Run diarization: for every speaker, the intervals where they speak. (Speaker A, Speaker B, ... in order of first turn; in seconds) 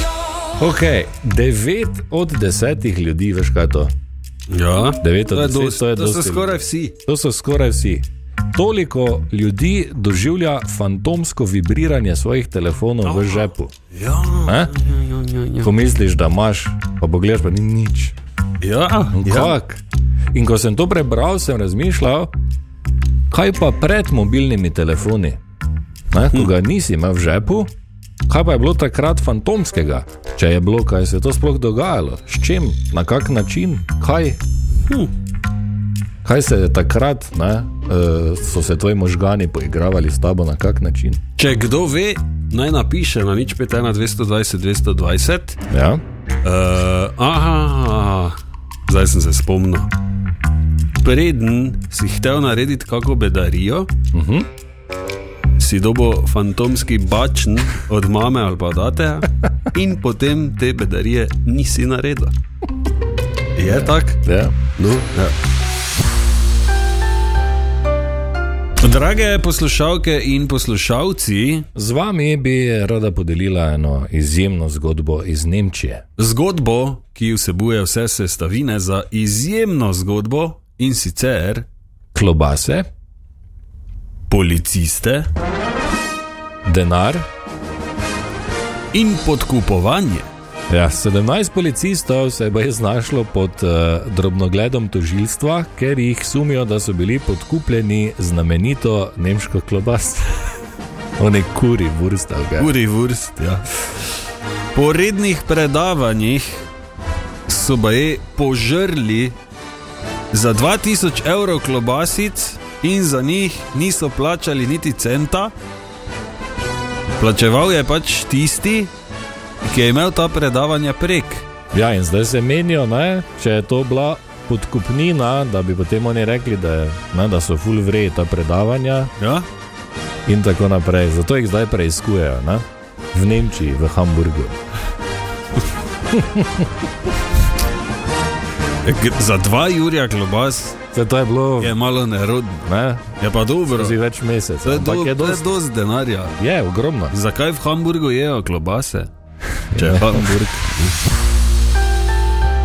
Speaker A: 0.6-3.9, 5.0-13.7, 14.4-14.7, 15.6-18.1, 19.1-19.8, 20.3-22.3, 23.3-25.4, 26.1-27.7, 28.3-34.4, 36.2-41.2, 45.7-46.0, 54.1-54.5, 63.6-64.5, 71.7-76.0, 82.1-82.9, 86.6-87.2, 90.7-100.3, 101.2-102.7, 121.7-129.1, 130.2-134.6, 136.1-136.7, 140.9-141.7, 142.7-143.0, 143.7-145.5, 146.4-147.1, 149.7-150.6
Speaker B: 4.5-7.0, 13.0-15.7, 18.6-19.5, 41.4-45.6, 46.4-49.9, 51.0-53.9, 55.6-62.3, 63.5-64.2, 64.8-65.3, 68.8-71.7, 76.2-81.7, 84.3-85.3, 88.9-90.3, 102.6-103.6, 104.7-106.6, 107.5-109.3, 110.3-115.5, 117.2-118.9, 119.6-121.5, 129.2-129.4, 138.8-140.8, 141.6-143.9, 144.6-146.3, 147.1-149.1, 149.7-150.9